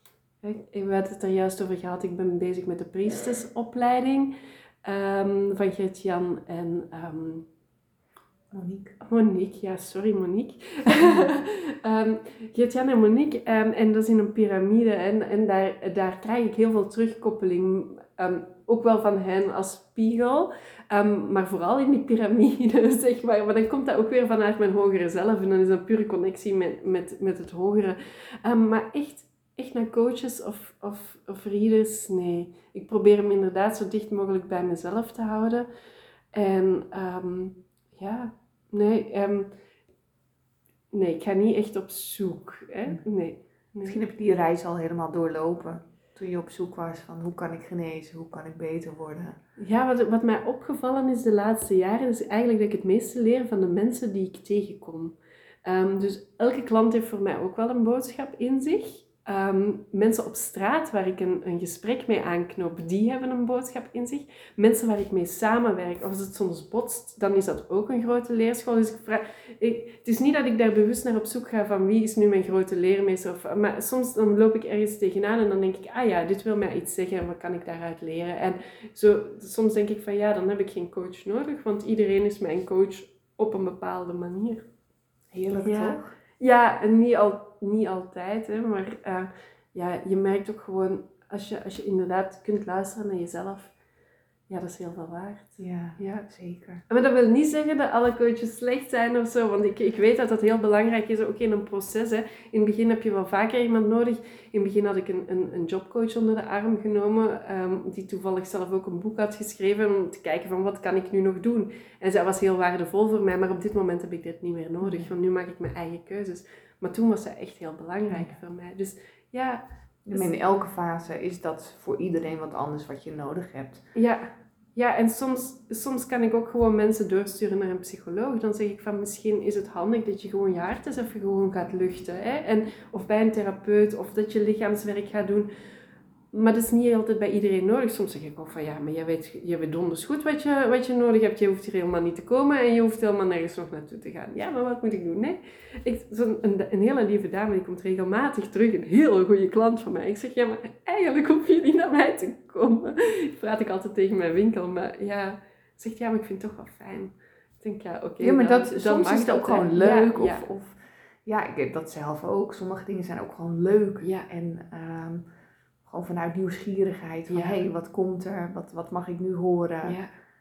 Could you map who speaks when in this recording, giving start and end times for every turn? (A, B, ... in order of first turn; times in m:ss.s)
0:00.4-0:07.5 A
0:08.5-0:09.0 B
0:09.0-0:35.7 A
0:10.9-0:11.3 B
0:36.3-0:39.5 A
0:40.9-0:44.0 A
0:43.8-0:49.4 B
0:49.6-1:24.6 A
1:25.3-1:26.1 B
1:25.6-1:33.7 A
1:34.5-1:36.3 A
1:35.6-1:36.8 B
1:36.9-2:00.3 A
1:54.8-1:55.1 B
2:00.0-2:03.8 B
2:03.9-2:15.5 A
2:16.3-2:40.4 A
2:38.2-2:45.2 B
2:44.0-2:44.3 A
2:45.8-2:50.0 B
2:47.3-2:47.6 A
2:49.8-2:50.1 A